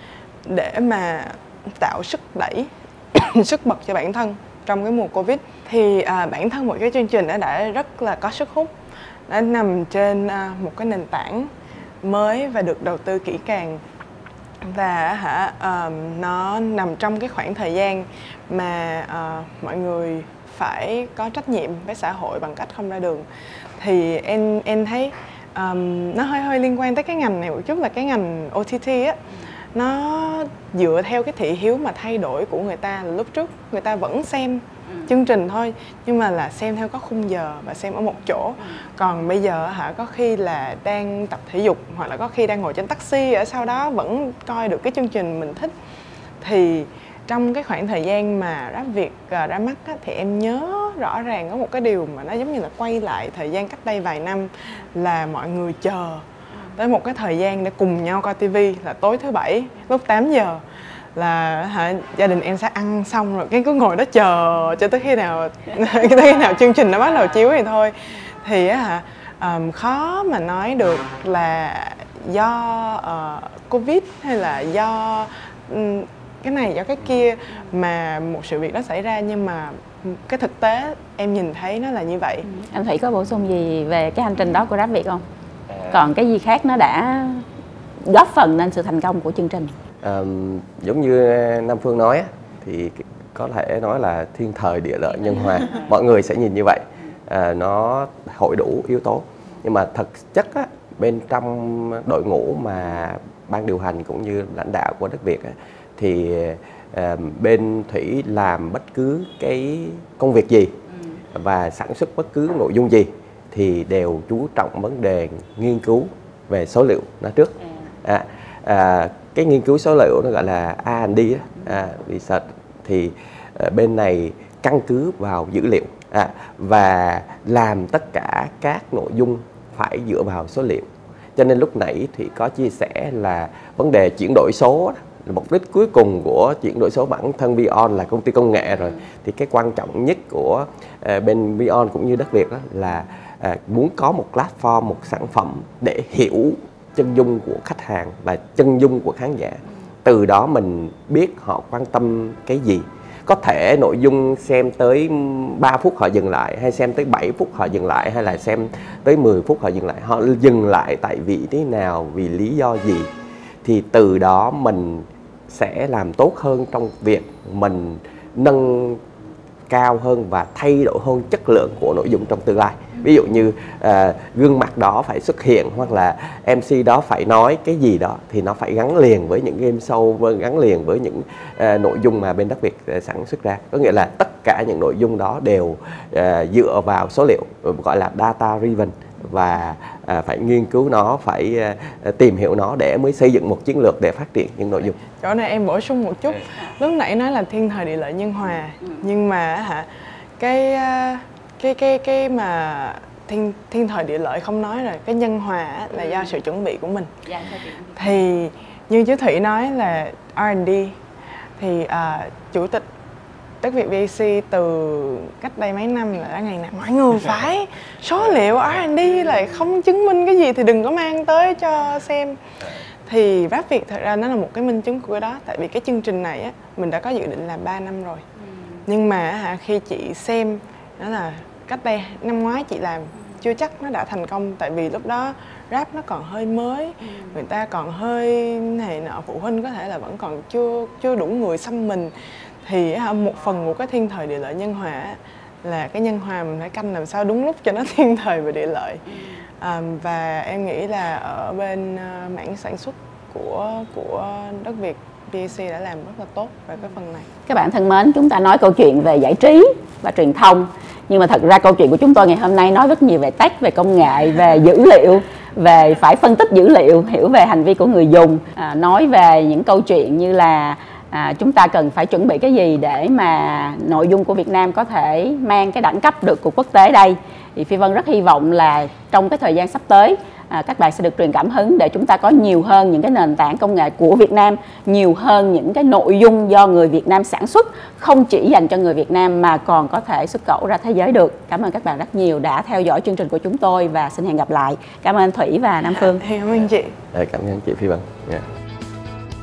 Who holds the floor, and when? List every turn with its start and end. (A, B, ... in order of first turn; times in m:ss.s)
0:00.4-0:08.7 A
0:09.3-0:11.5 A
0:12.0-0:13.8 A
0:14.6-0:23.2 A
0:23.8-0:29.2 A
0:29.7-0:45.7 A
0:46.4-0:56.2 A
0:56.7-1:00.6 A
1:01.1-1:22.5 A
1:22.5-1:25.2 B
1:25.7-1:26.1 C
1:25.9-1:27.4 B
1:28.0-1:29.7 B
1:30.0-1:50.8 C
1:51.3-2:43.1 C
2:43.6-2:49.0 C
2:49.7-3:15.0 C
3:15.2-3:27.1 A
3:27.3-3:28.1 B
3:28.0-3:31.0 A
3:31.6-3:32.9 A
3:33.6-3:42.4 A
3:43.0-3:48.2 A
3:48.8-4:09.0 A
4:09.6-4:17.3 A
4:17.5-4:56.2 B
4:55.9-4:57.0 A
4:57.1-4:58.4 C